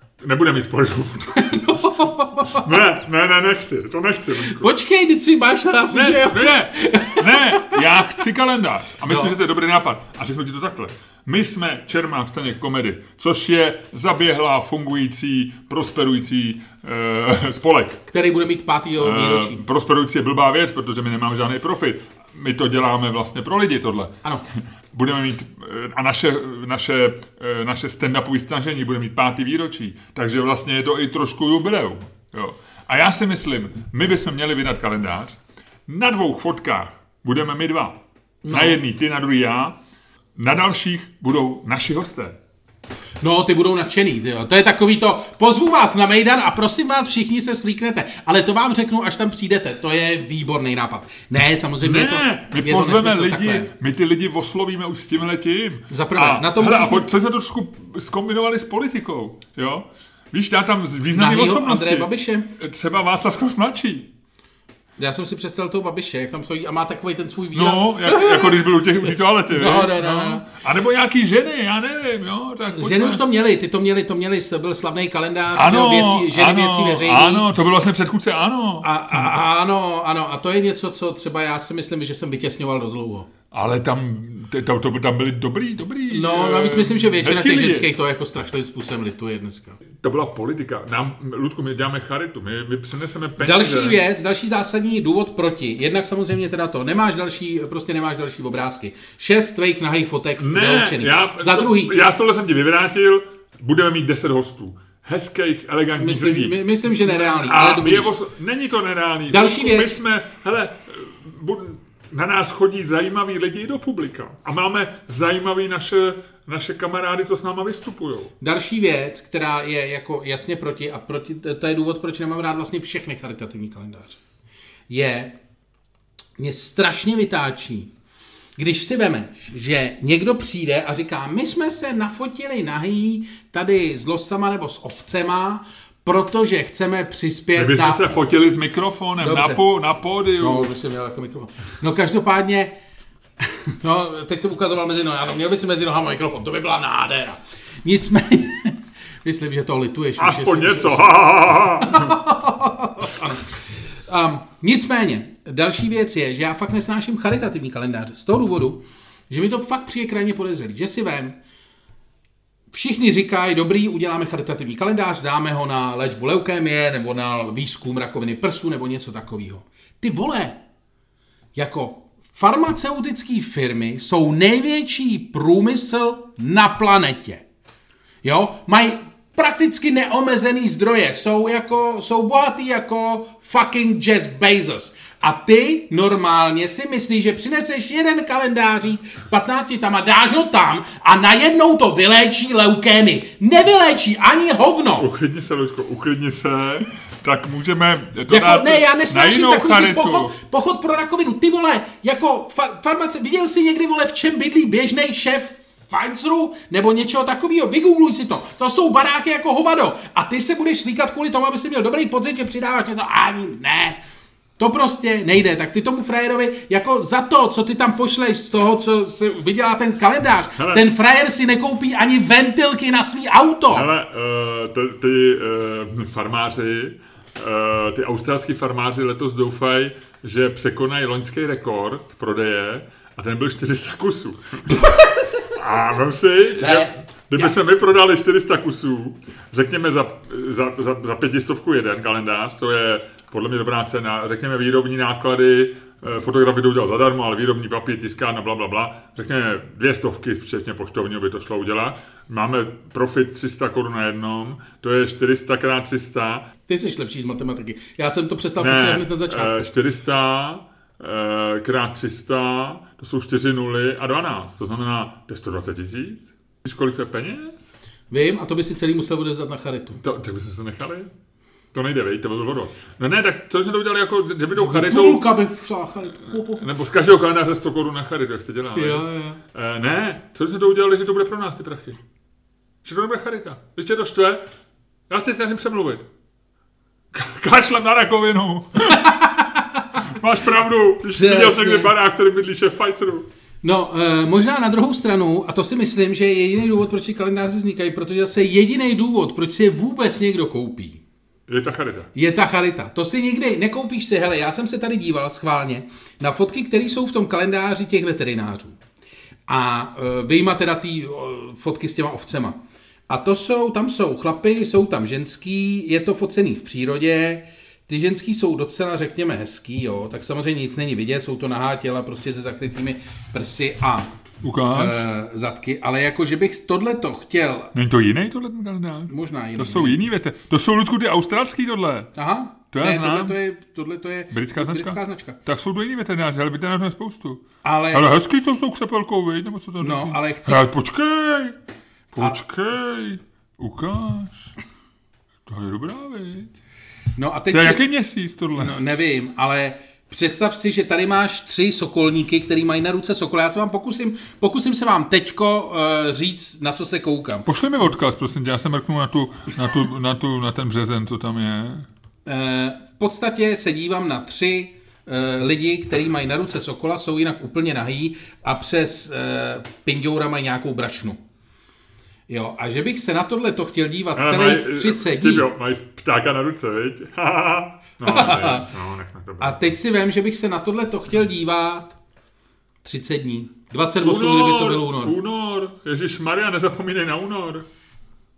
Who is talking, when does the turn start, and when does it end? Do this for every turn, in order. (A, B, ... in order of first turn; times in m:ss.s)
0:00.2-0:04.7 A
0:01.4-0:02.7 B
0:04.4-0:08.0 B
0:05.9-0:18.0 A
0:09.0-0:09.3 B
0:18.1-0:19.6 B
0:19.0-0:38.0 A
0:38.4-0:38.8 B
0:38.5-0:39.8 A
0:40.4-0:42.4 A
0:43.2-0:53.7 B
0:51.8-1:04.1 A
0:55.9-0:57.1 B
1:01.1-1:02.5 B
1:05.0-1:08.7 B
1:07.5-1:13.2 A
1:09.5-1:10.4 B
1:12.7-1:17.5 B
1:15.5-1:18.8 A
1:18.8-1:23.3 B
1:23.5-1:27.9 A
1:26.1-1:29.8 B
1:30.0-1:34.0 A
1:33.4-1:41.9 B
1:40.4-1:58.3 A
1:46.0-1:48.1 B
1:49.3-1:50.0 B
1:58.4-2:04.2 B
2:04.9-2:05.4 B
2:06.4-2:07.9 B
2:08.6-2:18.2 B
2:17.6-2:20.7 A
2:19.2-2:19.6 B
2:20.4-2:22.7 B
2:23.4-2:41.4 B
2:30.2-2:32.2 A
2:42.7-2:50.6 B
2:51.5-2:57.4 B
2:58.2-3:15.1 B
3:15.0-3:20.3 A
3:18.3-3:34.0 B
3:34.6-3:43.9 B
3:40.6-3:40.8 A
3:43.7-3:54.8 A
3:54.7-3:55.5 B
3:55.5-4:16.5 A
3:56.6-3:57.5 B
4:16.7-4:19.6 B
4:18.6-4:27.7 A
4:28.1-4:30.0 B
4:30.0-4:31.1 A
4:31.7-4:35.2 A
4:34.5-4:36.7 B
4:36.1-4:42.0 A
4:38.7-4:39.4 B
4:42.8-4:44.4 A
4:45.1-4:46.1 A
4:47.1-4:49.0 A
4:48.9-4:50.1 B
4:50.0-4:53.2 A
4:51.1-4:51.9 B
4:53.6-5:01.0 B
5:01.5-5:02.1 A
5:02.1-5:08.8 B
5:09.5-5:12.6 B
5:13.1-5:24.1 B
5:24.4-5:25.0 A
5:24.7-5:27.7 B
5:27.7-5:32.1 A
5:29.1-5:30.0 B
5:32.1-5:35.4 B
5:32.7-5:33.4 A
5:34.3-5:41.6 A
5:37.6-5:38.2 B
5:39.8-5:40.7 B
5:42.1-5:44.5 A
5:45.5-5:46.5 A
5:47.2-5:47.8 B
5:47.5-5:48.8 A
5:48.6-5:57.5 B
5:57.4-6:01.9 A
6:02.2-6:11.2 B
6:12.3-6:15.5 B
6:14.1-6:19.6 A
6:18.0-6:18.6 B
6:19.4-6:22.0 B
6:22.8-6:25.2 B
6:24.0-6:27.6 A